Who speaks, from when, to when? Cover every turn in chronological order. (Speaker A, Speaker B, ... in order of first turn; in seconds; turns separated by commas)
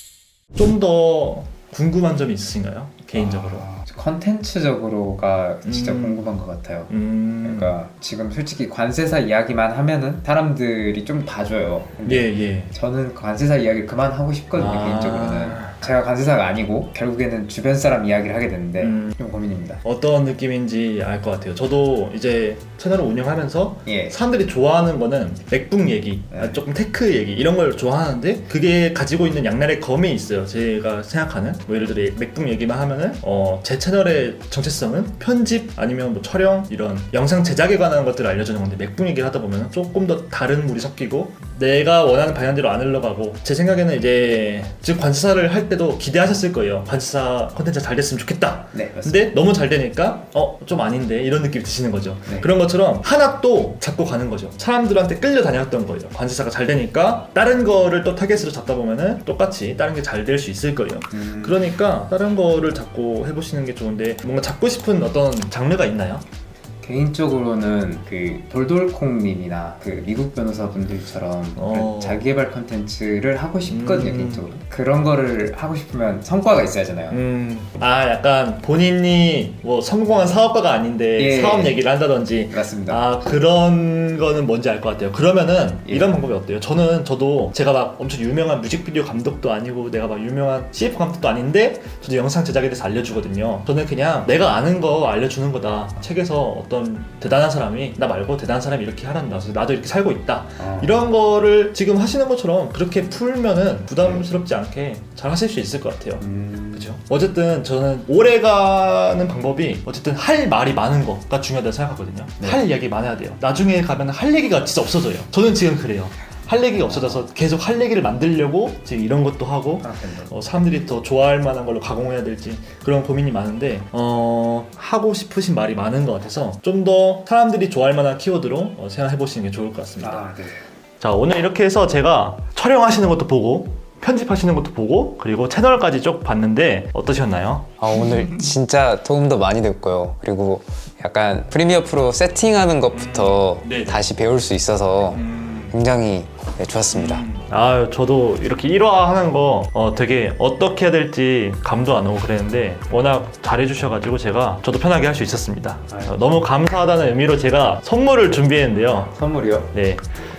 Speaker A: 0.6-3.7, Speaker B: 3.2-6.9, Speaker A: 5.7-6.2, Speaker A: 6.9-7.7, Speaker B: 7.4-19.8, Speaker A: 12.0-12.7, Speaker A: 14.6-15.7, Speaker A: 18.8-19.1, Speaker A: 19.8-66.2, Speaker B: 23.9-24.1, Speaker B: 26.3-26.6, Speaker B: 48.7-49.3, Speaker B: 61.1-61.7, Speaker B: 66.8-77.2, Speaker A: 71.5-72.3, Speaker A: 73.7-74.5, Speaker A: 77.1-130.2, Speaker B: 81.2-81.8, Speaker B: 82.5-83.0, Speaker B: 85.8-86.2, Speaker B: 100.6-100.9, Speaker B: 106.2-107.0, Speaker B: 119.8-120.3, Speaker B: 130.0-130.6, Speaker A: 131.0-137.8, Speaker B: 137.8-140.7, Speaker C: 141.0-142.3, Speaker B: 141.4-145.2, Speaker A: 142.9-144.0, Speaker C: 143.9-144.9, Speaker A: 145.1-145.7, Speaker B: 145.7-147.2, Speaker A: 146.9-159.1, Speaker B: 155.9-156.2, Speaker B: 159.1-159.7, Speaker A: 159.7-160.1